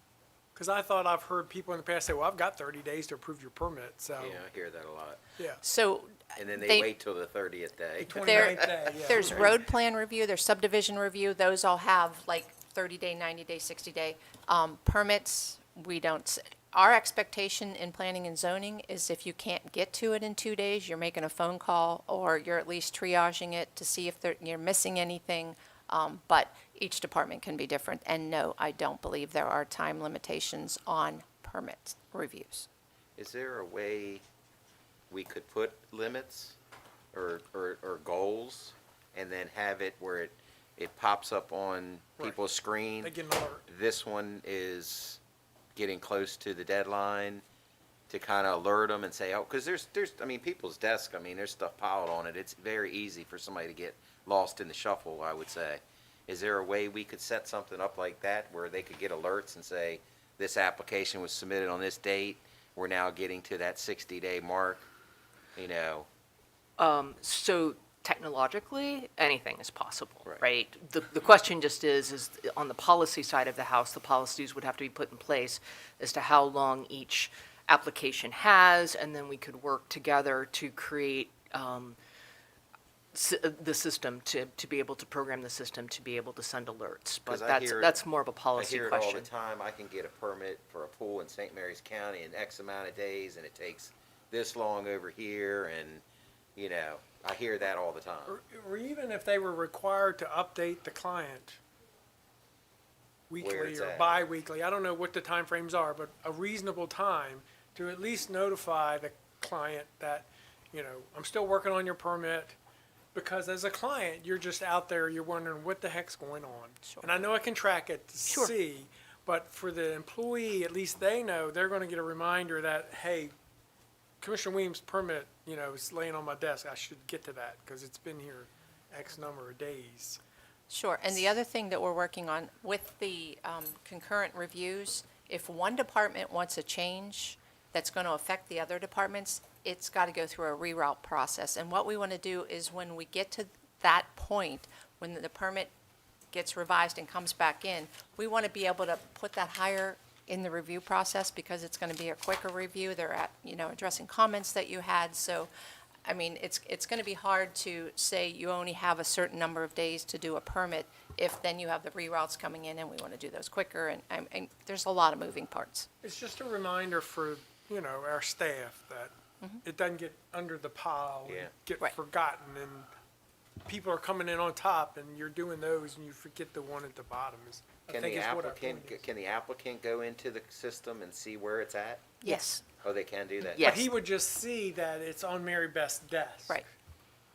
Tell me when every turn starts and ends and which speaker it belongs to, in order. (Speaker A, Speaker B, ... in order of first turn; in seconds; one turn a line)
Speaker A: 0.6-4.4
Speaker B: 4.2-5.2
Speaker C: 5.6-6.9
Speaker B: 6.4-8.7
Speaker A: 8.0-9.4
Speaker C: 8.2-32.7
Speaker B: 9.2-9.5
Speaker B: 33.2-34.2
Speaker B: 35.1-36.6
Speaker B: 37.1-43.1
Speaker A: 43.0-43.6
Speaker B: 43.7-45.2
Speaker B: 45.8-47.4
Speaker B: 48.1-64.9
Speaker B: 65.6-66.1
Speaker D: 66.8-82.0
Speaker D: 83.1-89.3
Speaker B: 87.3-88.0
Speaker B: 88.5-96.0
Speaker B: 96.6-98.3
Speaker A: 98.3-101.6
Speaker A: 103.3-112.6
Speaker B: 103.4-104.3
Speaker A: 113.1-123.3
Speaker C: 116.8-117.1
Speaker D: 118.3-118.5
Speaker A: 124.2-130.2
Speaker C: 130.7-145.7
Speaker C: 146.3-155.5
Speaker C: 156.1-165.9
Speaker A: 166.0-169.1
Speaker A: 169.6-172.9
Speaker B: 171.2-171.5
Speaker A: 173.7-179.0
Speaker B: 177.9-182.1
Speaker C: 182.2-182.6
Speaker B: 182.8-183.8
Speaker D: 183.6-183.9
Speaker A: 183.6-186.7